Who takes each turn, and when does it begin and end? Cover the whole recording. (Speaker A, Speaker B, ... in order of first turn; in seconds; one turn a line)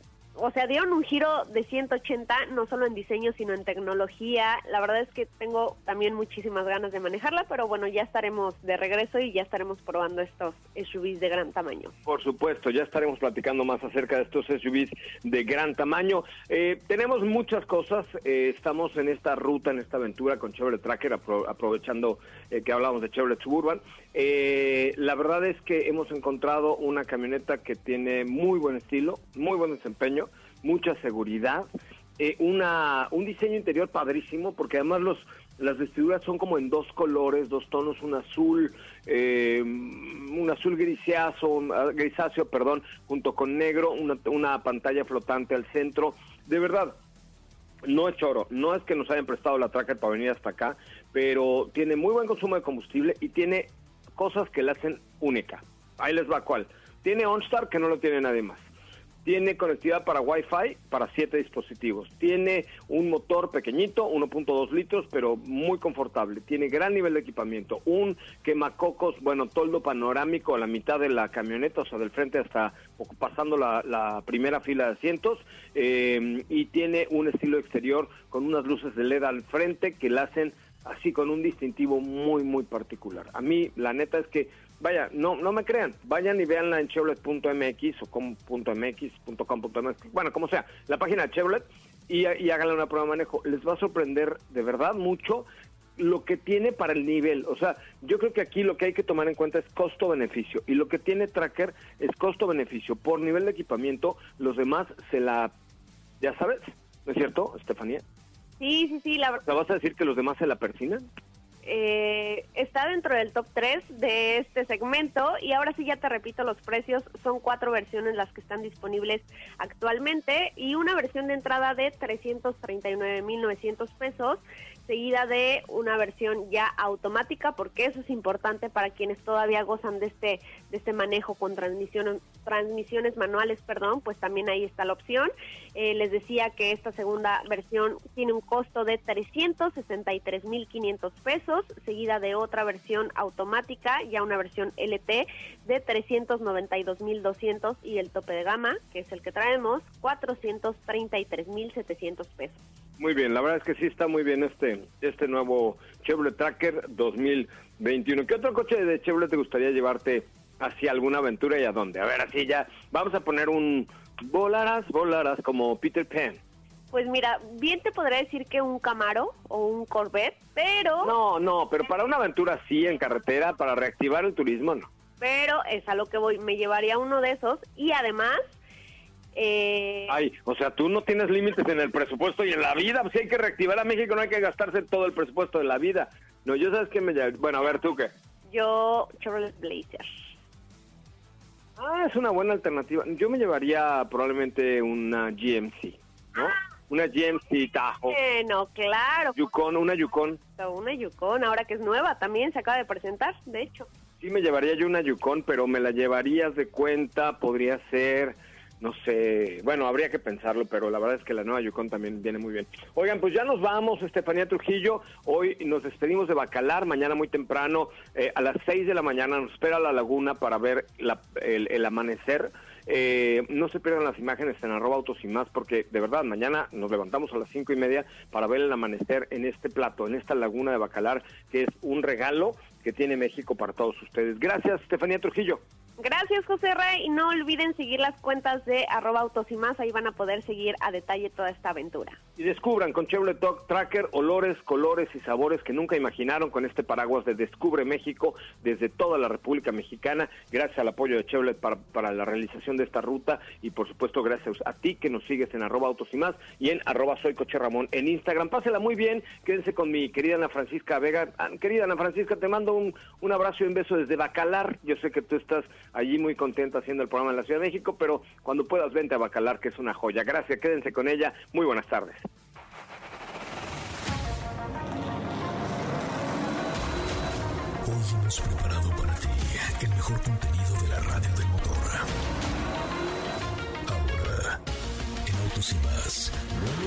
Speaker A: 0.3-11.9
Speaker B: 12.1-47.0
Speaker B: 47.8-58.7
Speaker B: 59.2-105.5
Speaker B: 106.2-108.0
Speaker A: 108.6-109.5
Speaker B: 109.4-111.0
Speaker A: 111.6-152.6
Speaker B: 153.0-166.4
Speaker A: 166.9-171.1
Speaker B: 171.0-174.9
Speaker A: 175.2-178.5
Speaker A: 179.3-180.2
Speaker B: 180.1-188.1
Speaker A: 188.5-190.1
Speaker B: 191.8-198.2
Speaker A: 198.1-199.5
Speaker B: 199.3-200.4
Speaker A: 200.6-203.9
Speaker B: 204.2-235.6
Speaker A: 236.0-242.2
Speaker B: 242.4-272.3
Speaker C: 277.8-282.1
Speaker C: 283.9-284.6
Speaker C: 285.2-286.4